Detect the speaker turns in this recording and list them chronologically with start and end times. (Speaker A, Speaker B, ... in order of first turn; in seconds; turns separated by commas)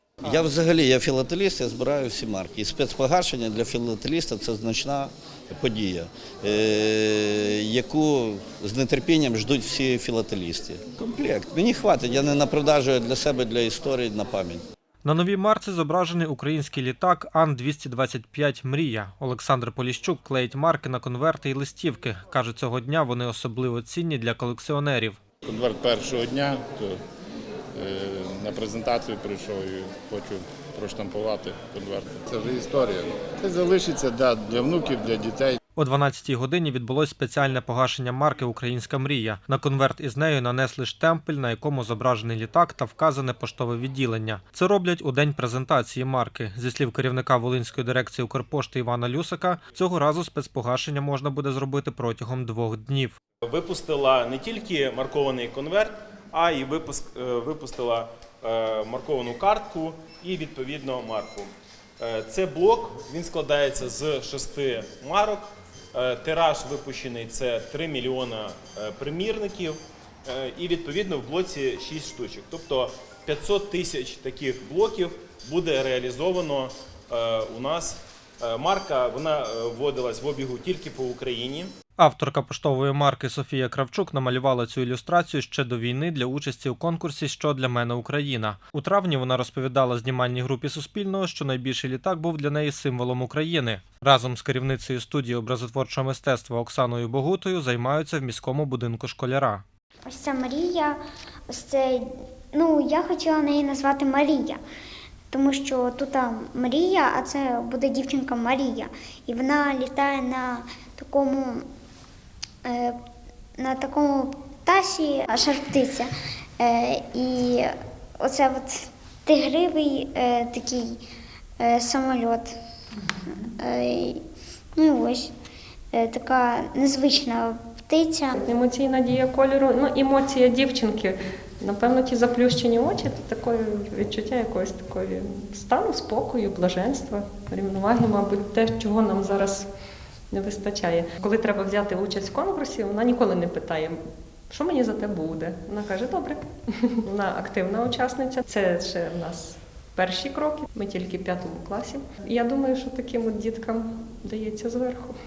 Speaker A: 0.2-14.6, Speaker B: 15.0-25.2, Speaker C: 25.4-27.0, Speaker C: 27.7-35.6, Speaker B: 35.8-53.2, Speaker D: 53.5-81.7, Speaker B: 82.0-99.6, Speaker E: 100.1-104.6, Speaker E: 105.3-111.7, Speaker E: 112.7-113.0, Speaker E: 113.6-121.0, Speaker E: 121.6-122.6, Speaker E: 123.3-124.2, Speaker E: 124.8-125.3, Speaker E: 125.9-128.3, Speaker F: 128.3-139.7, Speaker F: 140.3-144.0, Speaker F: 144.5-155.1